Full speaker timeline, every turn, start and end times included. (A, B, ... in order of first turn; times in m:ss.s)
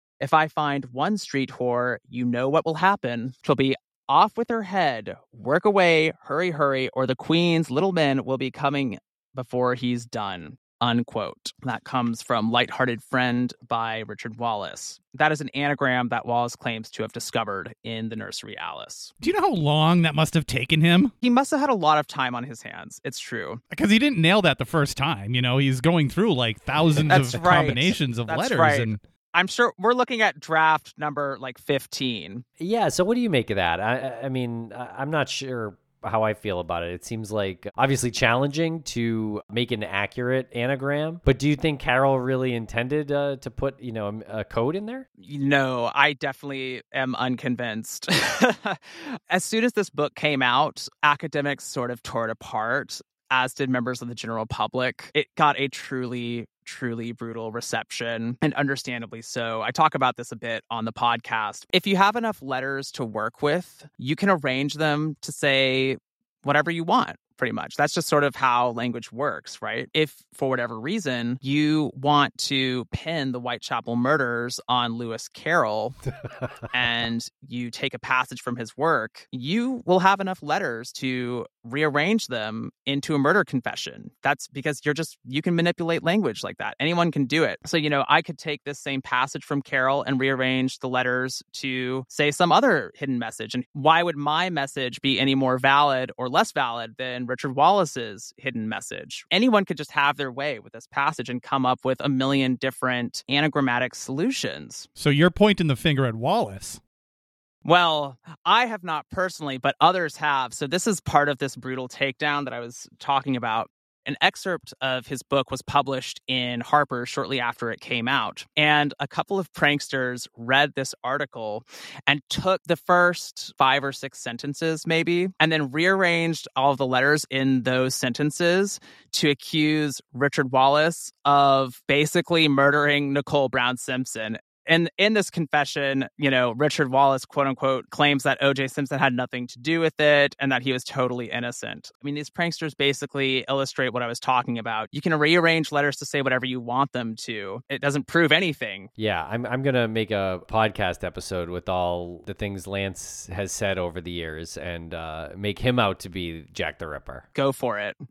0:00.2-0:19.1 A
0:19.2-0:21.1 B
0:21.2-0:23.6 A
0:23.7-0:29.0 B
0:27.1-0:32.4 A
0:32.6-0:45.0 C
0:45.2-1:16.0 A
1:16.7-1:44.9 A
1:45.0-1:46.8 B
1:47.6-2:28.9 A
2:29.0-2:37.2 C
2:37.3-2:38.0 A